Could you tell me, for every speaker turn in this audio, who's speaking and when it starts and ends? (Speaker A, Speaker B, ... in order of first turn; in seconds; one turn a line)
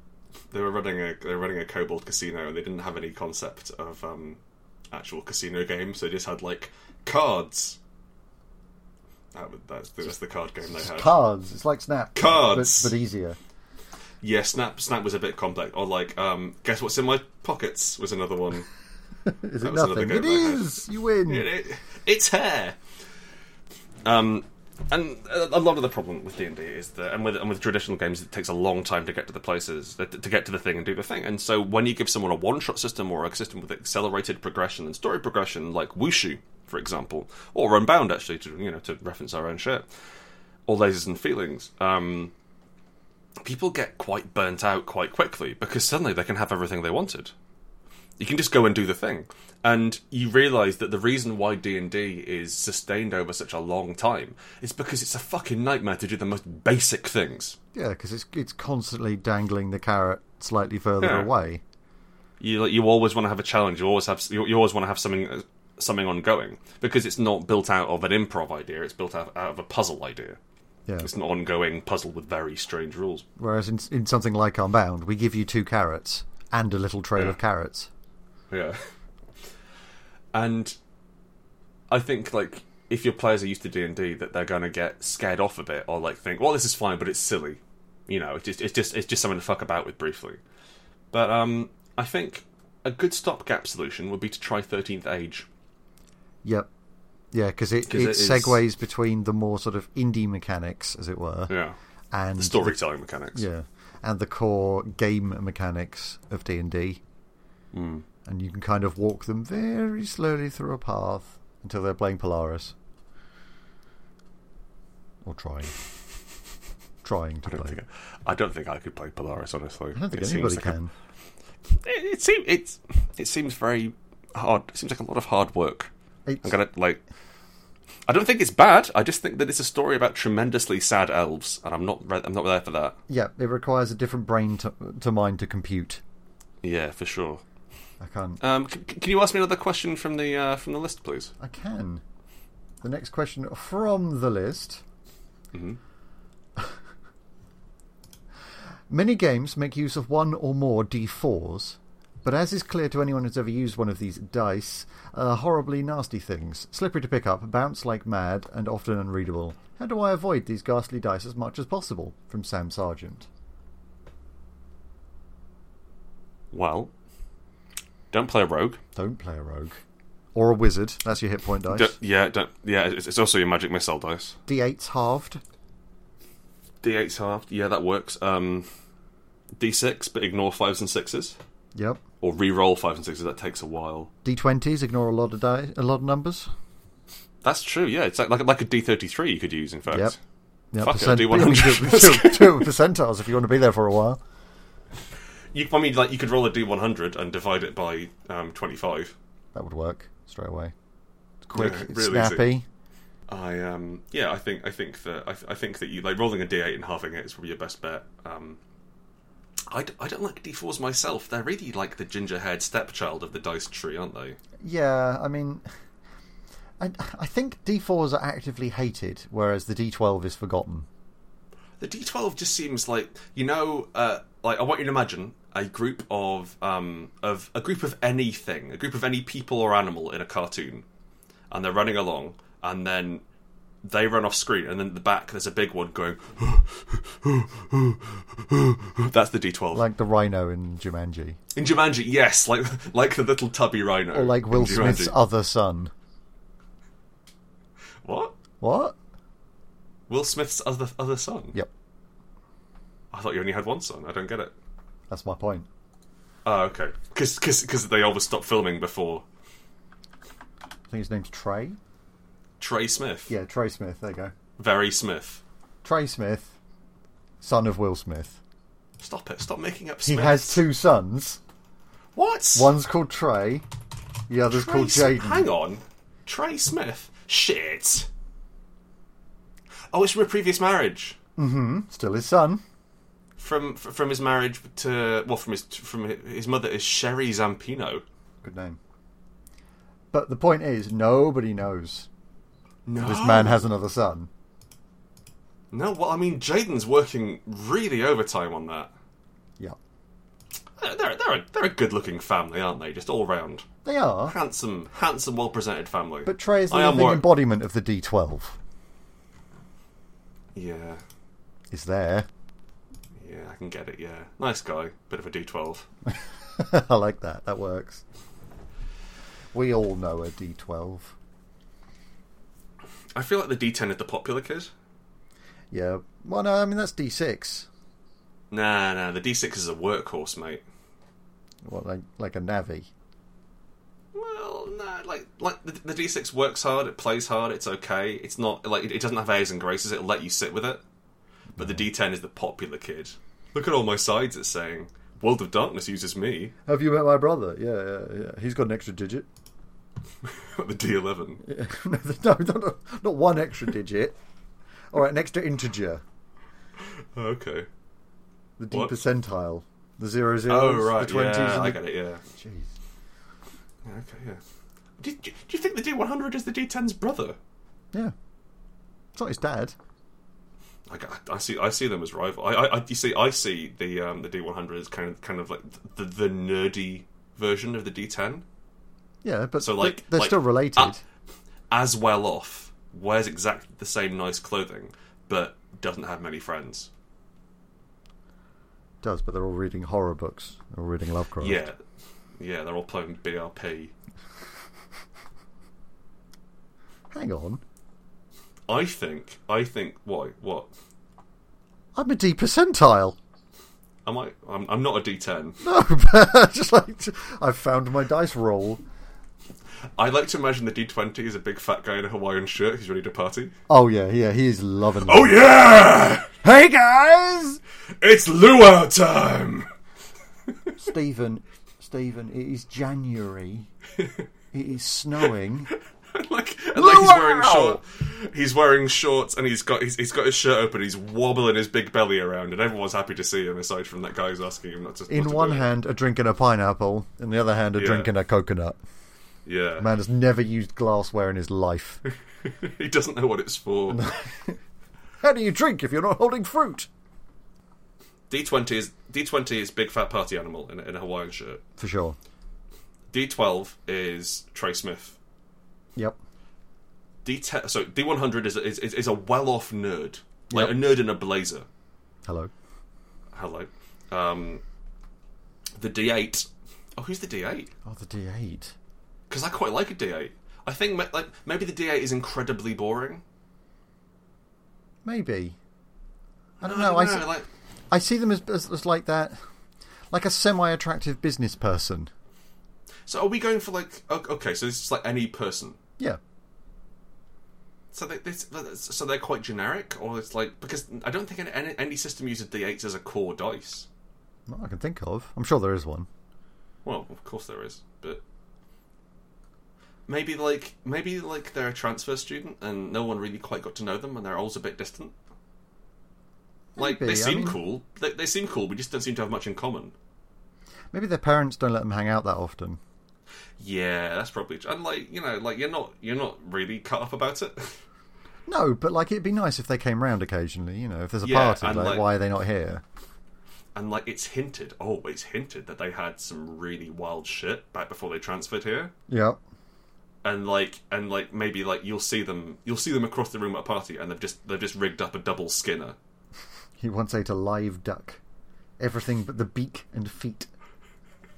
Speaker A: 0.5-4.4
Speaker A: 4.9-7.8
Speaker A: 9.3-11.2
Speaker B: 10.7-13.4
Speaker A: 12.1-12.9
Speaker A: 14.2-18.7
Speaker B: 19.2-21.5
Speaker A: 19.6-22.8
Speaker A: 24.0-39.9
Speaker A: 40.7-42.3
Speaker A: 43.4-47.3
Speaker A: 48.2-57.6
Speaker B: 57.7-61.6
Speaker A: 61.0-61.3
Speaker A: 62.4-70.4
Speaker A: 71.0-73.2
Speaker B: 73.4-77.9
Speaker A: 78.5-78.8
Speaker A: 80.3-80.8
Speaker A: 81.9-90.4
Speaker A: 91.1-95.5
Speaker B: 96.4-96.7
Speaker B: 97.3-101.5
Speaker A: 97.9-98.6
Speaker A: 101.5-101.8
Speaker B: 102.1-102.8
Speaker A: 102.4-103.4
Speaker B: 103.3-107.0
Speaker A: 107.7-108.0
Speaker B: 108.2-112.7
Speaker B: 115.2-115.7
Speaker B: 117.0-117.7
Speaker A: 117.5-120.8
Speaker B: 119.9-120.9
Speaker A: 121.7-125.9
Speaker B: 126.2-126.5
Speaker A: 126.4-127.0
Speaker A: 128.1-133.0
Speaker B: 133.1-136.0
Speaker A: 136.6-137.4
Speaker B: 138.0-138.4
Speaker A: 138.4-141.3
Speaker B: 141.4-142.0
Speaker B: 142.8-144.8
Speaker A: 145.5-145.8
Speaker B: 148.9-163.3
Speaker A: 166.5-166.9
Speaker A: 168.1-168.8
Speaker B: 168.9-169.8
Speaker B: 170.3-171.9
Speaker A: 171.7-174.3
Speaker B: 174.5-175.4
Speaker A: 176.8-178.7
Speaker A: 179.6-181.4
Speaker B: 181.7-182.0
Speaker A: 182.2-184.1
Speaker B: 184.2-186.5
Speaker A: 187.4-190.2
Speaker B: 189.9-190.1
Speaker B: 190.7-194.2
Speaker A: 190.8-192.7
Speaker A: 195.5-199.1
Speaker B: 199.5-200.7
Speaker B: 201.4-202.6
Speaker A: 201.5-202.4
Speaker A: 203.3-208.6
Speaker A: 209.7-214.4
Speaker B: 214.6-215.6
Speaker B: 216.8-220.9
Speaker A: 221.8-230.8
Speaker A: 231.5-233.2
Speaker A: 233.8-239.9
Speaker B: 239.7-241.4
Speaker A: 241.5-245.2
Speaker B: 244.1-245.9
Speaker A: 248.0-248.3
Speaker B: 248.6-248.9
Speaker A: 250.1-251.6
Speaker A: 253.1-254.5
Speaker B: 255.1-255.7
Speaker A: 256.4-259.2
Speaker B: 260.9-261.8
Speaker A: 262.6-263.3
Speaker B: 263.3-264.3
Speaker A: 264.6-265.4
Speaker B: 265.8-266.5
Speaker B: 267.4-268.4
Speaker A: 269.0-270.6
Speaker B: 270.1-271.4
Speaker A: 272.1-272.7
Speaker B: 272.5-273.6
Speaker B: 274.3-275.4
Speaker A: 274.5-278.1
Speaker A: 279.9-281.2
Speaker B: 281.4-282.6
Speaker A: 283.4-288.0
Speaker B: 288.4-288.8
Speaker B: 290.1-292.1
Speaker A: 292.9-293.6
Speaker B: 293.0-294.3
Speaker A: 295.7-298.9
Speaker A: 300.8-303.7
Speaker B: 303.8-304.3
Speaker A: 304.2-307.2
Speaker B: 306.2-308.6
Speaker A: 310.5-311.0
Speaker B: 311.7-312.3
Speaker A: 313.2-315.9
Speaker B: 316.1-318.0
Speaker B: 319.5-321.1
Speaker A: 323.1-324.7
Speaker B: 325.7-327.7
Speaker A: 328.5-330.6
Speaker B: 331.6-332.9
Speaker A: 334.1-340.8
Speaker B: 341.6-341.8
Speaker A: 341.6-346.5
Speaker B: 346.6-349.3
Speaker A: 350.2-351.4
Speaker B: 351.4-354.1
Speaker B: 354.9-356.0
Speaker A: 356.8-357.7
Speaker B: 358.6-361.8
Speaker A: 360.5-362.2
Speaker B: 362.3-362.7
Speaker A: 363.8-364.4
Speaker A: 365.0-367.4
Speaker B: 369.1-369.7
Speaker A: 370.9-378.4
Speaker B: 379.2-381.0
Speaker A: 379.6-380.9
Speaker A: 381.7-386.9
Speaker B: 389.0-391.7
Speaker A: 391.4-391.8
Speaker A: 392.4-393.9
Speaker B: 397.1-397.6
Speaker A: 398.7-400.7
Speaker B: 401.9-403.2
Speaker A: 404.1-405.6
Speaker B: 405.6-408.8
Speaker A: 410.0-413.5
Speaker B: 413.7-415.4
Speaker A: 415.0-416.4
Speaker B: 416.4-417.6
Speaker A: 418.0-419.7
Speaker B: 420.8-423.7
Speaker B: 424.5-425.7
Speaker A: 426.1-435.7
Speaker B: 426.7-427.8
Speaker B: 435.1-438.8
Speaker A: 437.8-438.1
Speaker A: 439.4-439.9
Speaker B: 439.8-442.0
Speaker A: 442.4-444.1
Speaker B: 443.9-444.6
Speaker B: 445.2-446.9
Speaker A: 448.3-451.6
Speaker B: 451.8-452.2
Speaker A: 453.1-455.2
Speaker A: 457.2-461.7
Speaker B: 460.5-460.8
Speaker B: 462.2-462.5
Speaker A: 463.3-464.6
Speaker A: 465.8-467.7
Speaker B: 467.8-468.7
Speaker A: 469.3-473.2
Speaker B: 475.0-475.6
Speaker B: 476.6-477.3
Speaker A: 476.6-477.5
Speaker B: 477.9-479.4
Speaker B: 480.1-482.1
Speaker A: 483.1-485.8
Speaker A: 487.9-493.9
Speaker B: 494.5-496.1
Speaker A: 496.8-498.2
Speaker A: 500.1-505.1
Speaker B: 506.7-507.6
Speaker A: 506.8-509.9
Speaker B: 510.9-512.8
Speaker A: 513.6-517.8
Speaker B: 518.5-522.8
Speaker A: 521.2-522.1
Speaker A: 523.7-528.9
Speaker B: 529.1-529.4
Speaker A: 530.2-536.0
Speaker B: 536.8-538.2
Speaker B: 538.8-540.5